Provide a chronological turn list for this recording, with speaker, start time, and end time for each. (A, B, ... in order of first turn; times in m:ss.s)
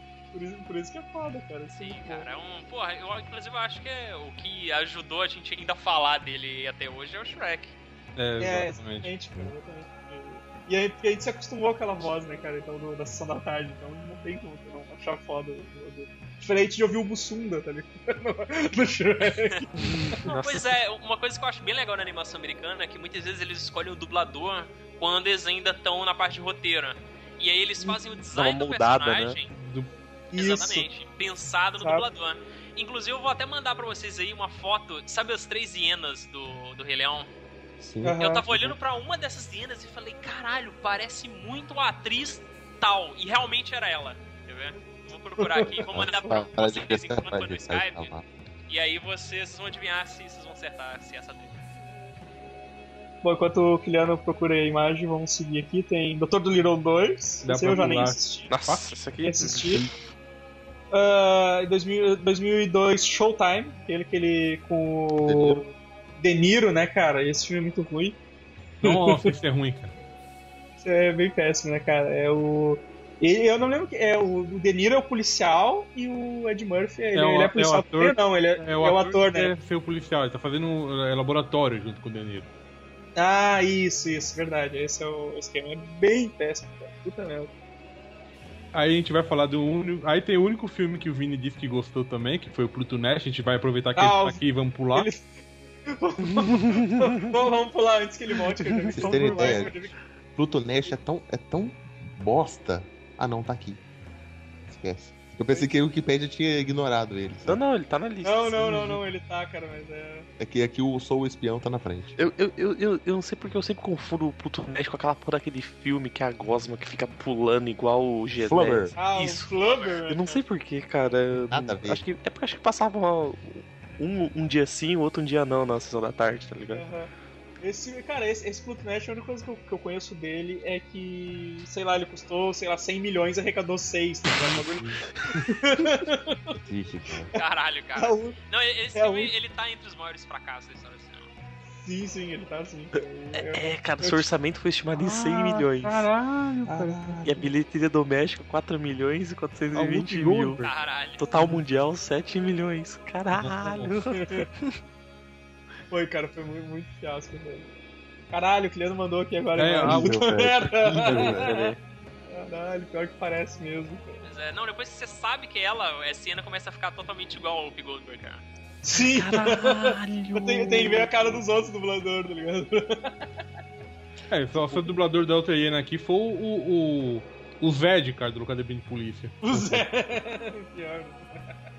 0:00.3-0:02.3 A
0:01.7-0:07.7 B
0:08.2-0:09.1 C
0:08.4-0:20.0 A
0:19.2-0:19.6 B
0:19.8-0:20.7 D
0:20.3-0:29.5 B
0:28.3-0:29.4 D
0:29.5-0:29.9 C
0:30.3-0:30.9 A
0:30.3-0:37.3 B
0:31.8-0:32.1 A
0:37.8-0:38.2 E
0:38.0-0:38.4 A
0:38.2-0:48.1 B
0:45.4-0:45.8 A
0:45.9-0:48.2 E
0:48.7-0:51.6 B
0:53.2-0:58.5 A
0:57.4-0:59.0 C
0:58.5-0:59.9 D
0:59.2-0:59.8 A
1:00.9-1:08.2 A
1:05.2-1:05.7 E
1:08.8-1:09.9 C
1:08.8-1:09.4 A
1:10.8-1:19.5 A
1:17.1-1:22.5 C
1:23.2-1:27.5 A
1:28.7-1:35.1 C
1:34.0-1:34.4 A
1:34.9-1:39.9 A
1:36.2-1:37.4 D
1:38.5-1:39.8 D
1:38.9-1:43.8 E
1:44.7-1:47.6 E
1:47.4-1:49.0 D
1:48.2-1:50.3 A
1:50.4-1:52.2 E
1:52.2-1:59.5 D
1:58.3-1:59.0 E
1:59.0-2:00.4 A
1:59.5-2:00.0 B
2:00.1-2:06.8 D
2:01.5-2:02.0 E
2:06.7-2:07.1 A
2:07.6-2:14.8 A
2:14.4-2:14.8 C
2:15.4-2:16.5 A
2:16.6-2:17.3 E
2:17.3-2:21.3 B
2:18.0-2:18.4 A
2:18.9-2:19.3 A
2:21.8-2:24.2 A
2:23.3-2:26.0 D
2:24.9-2:27.2 C
2:26.7-2:27.4 E
2:27.2-2:30.6 D
2:29.7-2:30.7 C
2:30.6-2:31.3 B
2:31.2-2:34.8 D
2:31.3-2:31.6 C
2:33.4-2:33.9 C
2:34.1-2:34.4 A
2:35.9-2:37.7 A
2:38.3-2:41.7 A
2:39.5-2:40.2 C
2:39.8-2:41.8 E
2:42.3-2:44.2 A
2:44.2-2:48.4 B
2:48.8-2:53.1 A
2:49.0-2:51.1 D
2:54.3-2:59.5 C
2:59.4-3:01.2 A